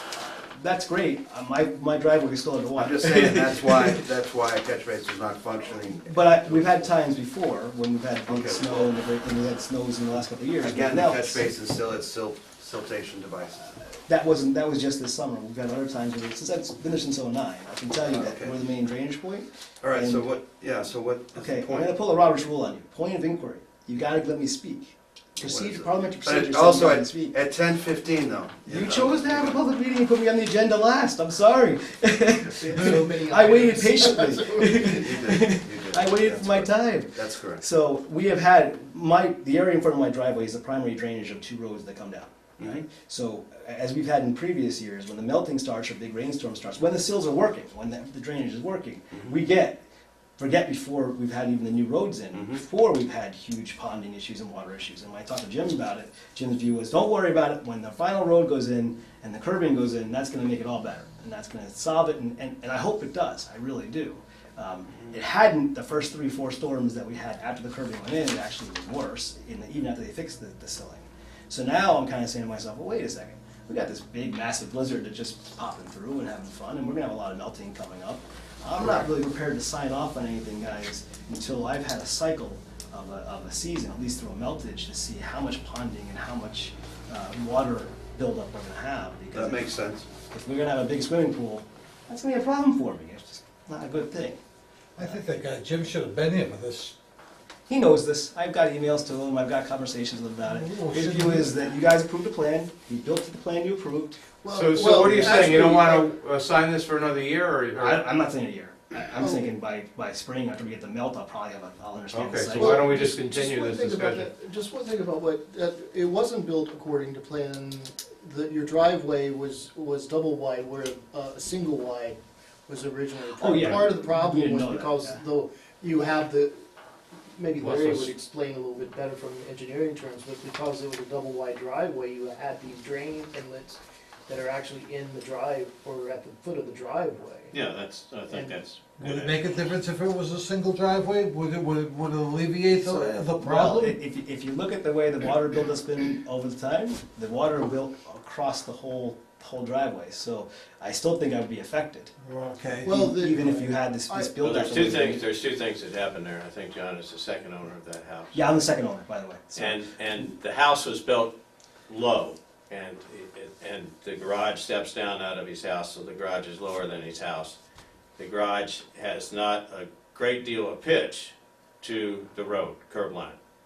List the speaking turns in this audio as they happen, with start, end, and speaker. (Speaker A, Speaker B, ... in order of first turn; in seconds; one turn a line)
Speaker A: 0.1-4.0
Speaker B: 2.8-6.7
Speaker A: 6.0-11.5
Speaker B: 8.2-8.9
Speaker B: 10.6-13.7
Speaker A: 13.8-20.3
Speaker B: 18.0-18.6
Speaker B: 19.8-21.9
Speaker A: 21.4-27.3
Speaker B: 25.4-29.6
Speaker A: 28.6-49.8
Speaker C: 32.4-35.0
Speaker B: 34.8-37.6
Speaker A: 50.4-89.7
Speaker B: 52.3-52.6
Speaker B: 89.3-90.1
Speaker A: 90.3-94.4
Speaker D: 95.0-96.9
Speaker A: 95.0-95.5
Speaker A: 97.7-104.2
Speaker D: 100.5-101.5
Speaker C: 104.4-106.1
Speaker E: 104.5-108.0
Speaker A: 105.0-105.7
Speaker A: 107.7-113.2
Speaker C: 109.2-109.5
Speaker E: 112.1-114.3
Speaker C: 112.5-126.5
Speaker A: 123.4-125.2
Speaker C: 127.3-137.5
Speaker E: 127.6-128.1
Speaker F: 137.5-139.6
Speaker C: 138.3-138.6
Speaker D: 139.0-144.0
Speaker A: 142.9-152.1
Speaker D: 152.2-152.9
Speaker C: 152.8-154.3
Speaker A: 152.8-155.2
Speaker F: 154.4-158.4
Speaker A: 158.3-159.8
Speaker F: 159.5-161.3
Speaker F: 161.9-167.6
Speaker F: 168.2-173.4